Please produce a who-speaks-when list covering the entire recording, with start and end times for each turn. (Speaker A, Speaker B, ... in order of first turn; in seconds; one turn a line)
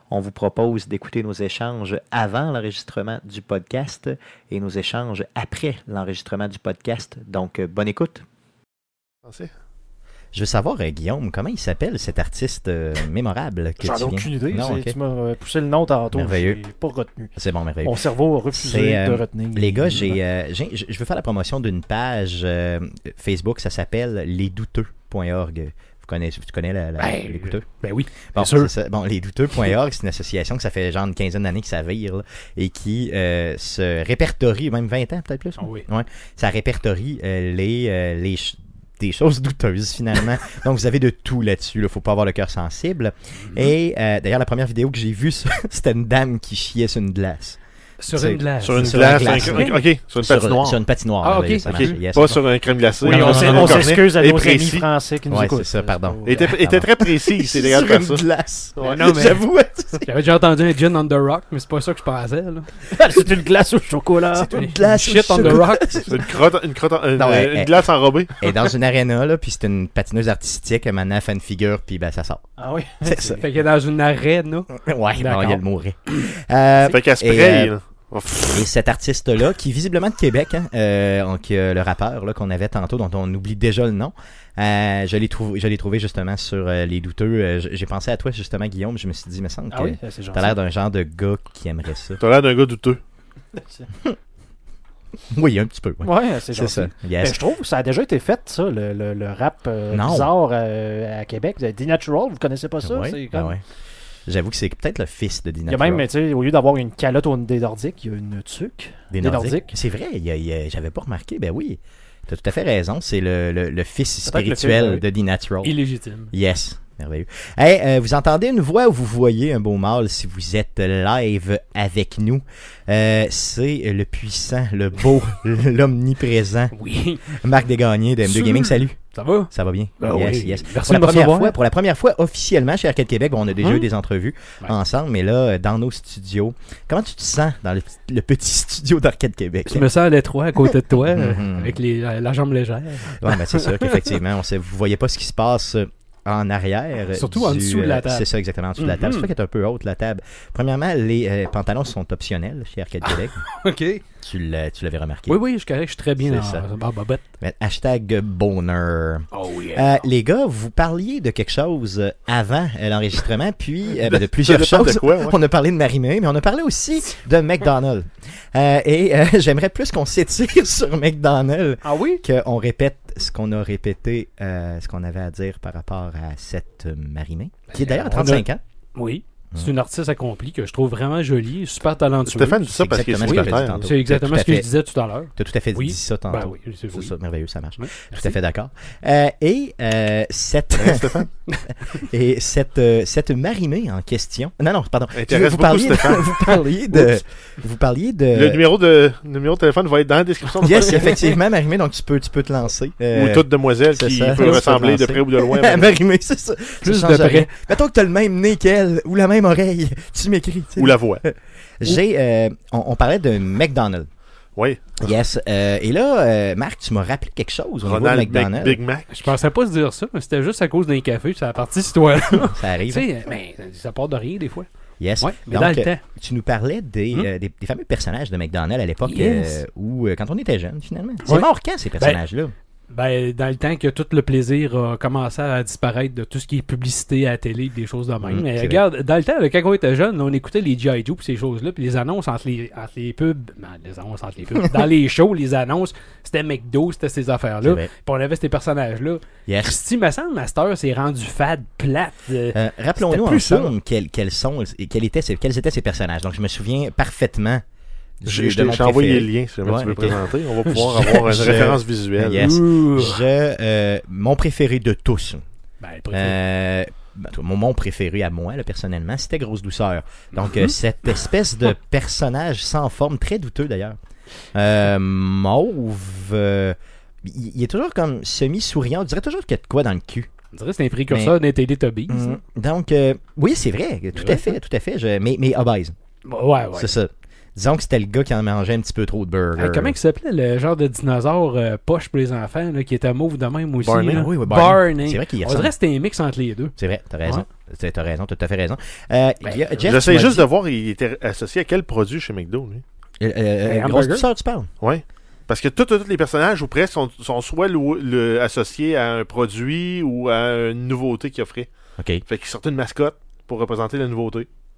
Speaker A: 5.5-8.1
Speaker B: 9.2-9.5
Speaker C: 10.3-14.9
Speaker D: 13.8-17.3
Speaker C: 16.1-16.6
Speaker C: 17.4-18.0
Speaker D: 17.8-20.2
Speaker C: 18.5-27.7
Speaker E: 27.0-28.7
Speaker C: 28.3-47.6
Speaker E: 35.6-35.9
Speaker E: 43.4-43.7
Speaker E: 48.0-49.8
Speaker C: 48.1-52.4
Speaker B: 48.6-50.8
Speaker E: 51.2-52.0
Speaker B: 51.6-54.9
Speaker E: 53.0-53.9
Speaker D: 53.0-56.5
Speaker C: 53.1-54.0
Speaker C: 55.3-60.1
Speaker B: 56.2-58.2
Speaker B: 58.8-59.0
Speaker E: 58.8-59.5
Speaker E: 60.0-62.8
Speaker D: 62.9-64.6
Speaker C: 64.3-66.2
Speaker E: 64.5-66.1
Speaker B: 66.0-68.5
Speaker C: 67.2-67.8
Speaker C: 68.4-72.5
Speaker D: 72.6-73.4
Speaker C: 73.0-73.4
Speaker E: 73.4-76.2
Speaker C: 74.8-77.7
Speaker B: 76.9-78.7
Speaker C: 78.5-92.2
Speaker D: 89.7-90.6
Speaker B: 92.2-93.0
Speaker D: 93.6-93.8
Speaker C: 95.3-97.4
Speaker D: 96.0-103.5
Speaker C: 99.9-100.3
Speaker C: 102.8-103.6
Speaker C: 104.3-106.0
Speaker D: 105.7-109.7
Speaker C: 109.1-115.8
Speaker D: 114.2-115.0
Speaker E: 115.6-116.3
Speaker C: 116.3-126.7
Speaker E: 126.7-127.4
Speaker C: 127.3-139.9
Speaker E: 128.2-131.6
Speaker E: 133.5-133.9
Speaker E: 139.7-144.2
Speaker C: 140.9-141.8
Speaker C: 143.1-153.4
Speaker E: 147.1-149.3
Speaker E: 153.0-154.0
Speaker C: 154.2-155.4
Speaker E: 155.3-157.2
Speaker C: 156.2-156.7
Speaker C: 157.4-178.6
Speaker E: 159.3-160.1
Speaker B: 164.0-165.4
Speaker E: 177.7-182.7
Speaker B: 182.2-183.9
Speaker C: 182.7-184.7
Speaker E: 183.2-188.4
Speaker C: 185.3-198.6
Speaker B: 190.8-191.3
Speaker B: 195.1-196.3
Speaker E: 196.4-197.2
Speaker B: 198.3-201.3
Speaker C: 200.6-214.1
Speaker B: 203.1-206.0
Speaker E: 204.3-204.7
Speaker E: 206.8-207.6
Speaker B: 210.8-211.2
Speaker B: 214.6-214.8
Speaker C: 215.0-218.8
Speaker B: 217.8-219.3
Speaker E: 219.1-226.0
Speaker C: 222.4-223.1
Speaker C: 225.0-232.5
Speaker E: 229.0-229.6
Speaker E: 231.2-232.2
Speaker E: 232.9-253.7
Speaker C: 238.2-238.8
Speaker C: 247.6-247.9
Speaker C: 249.5-249.8
Speaker C: 252.5-257.6
Speaker C: 258.2-260.2
Speaker B: 258.2-262.5
Speaker E: 260.1-261.7
Speaker C: 260.7-265.4
Speaker E: 262.3-263.2
Speaker E: 265.8-266.4
Speaker C: 266.1-273.9
Speaker E: 270.3-271.3
Speaker C: 274.5-280.3
Speaker E: 280.5-282.4
Speaker C: 281.1-281.4
Speaker C: 282.1-285.9
Speaker E: 284.1-284.6
Speaker E: 286.2-287.0
Speaker C: 286.7-289.9
Speaker E: 289.6-297.4
Speaker B: 293.8-294.2
Speaker C: 294.1-295.7
Speaker C: 296.8-300.5
Speaker E: 299.4-299.8
Speaker B: 299.9-302.8
Speaker C: 303.2-304.7
Speaker E: 303.6-304.3
Speaker B: 304.8-311.7
Speaker C: 312.0-312.2
Speaker B: 312.2-314.5